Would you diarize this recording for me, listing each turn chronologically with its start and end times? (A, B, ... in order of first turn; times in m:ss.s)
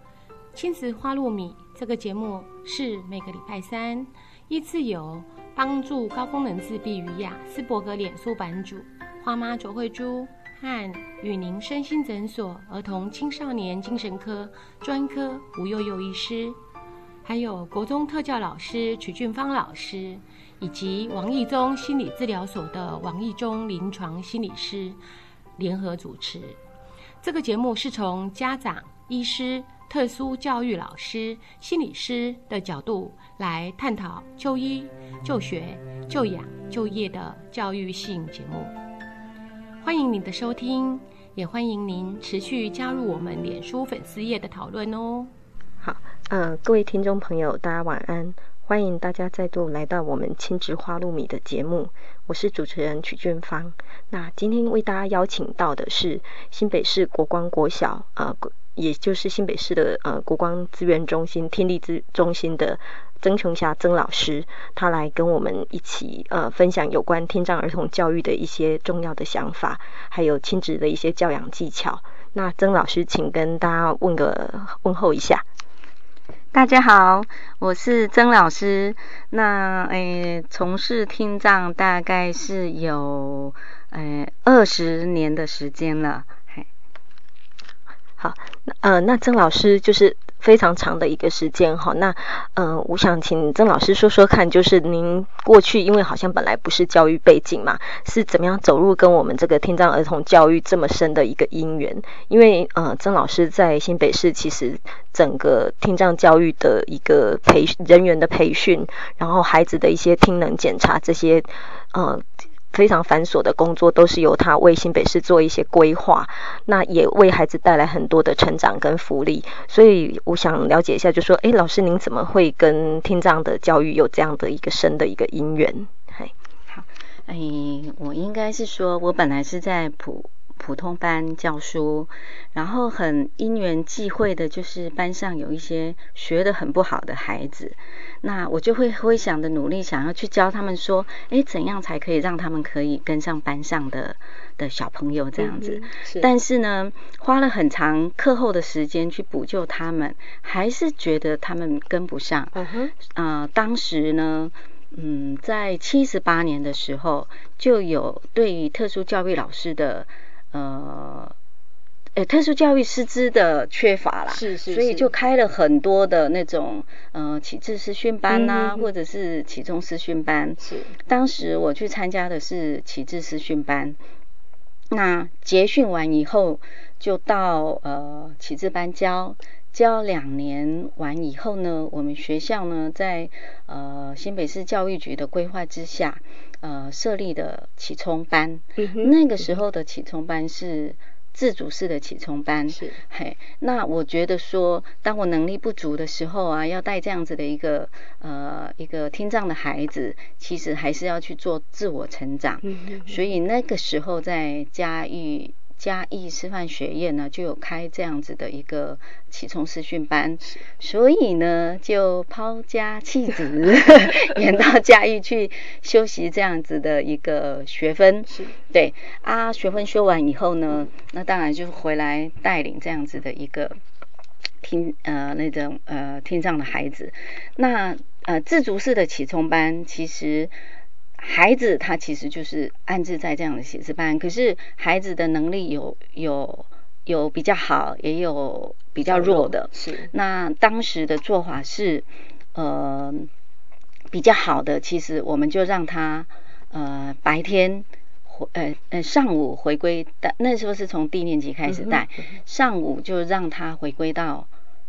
0:00.5-0:16.6 A
0:17.2-0:25.0 A
0:25.6-0:26.6 A
0:27.2-0:38.7 A
0:39.8-0:45.3 A
0:45.8-1:15.4 B
1:16.5-1:26.7 C
1:28.2-2:06.3 B
2:06.7-2:41.3 C
2:25.4-2:26.3 B
2:32.5-2:32.9 B
2:42.2-2:54.0 C
2:44.3-2:45.1 B
2:48.3-2:48.9 B
2:50.6-2:50.9 B
2:54.9-3:43.8 C
3:08.8-3:09.1 B
3:12.7-3:13.0 B
3:22.6-3:23.2 B
3:38.3-3:38.6 B
3:44.6-3:50.5 C
3:51.2-4:03.3 C
3:59.1-4:00.1 B
4:04.1-4:14.5 C
4:11.7-4:12.0 B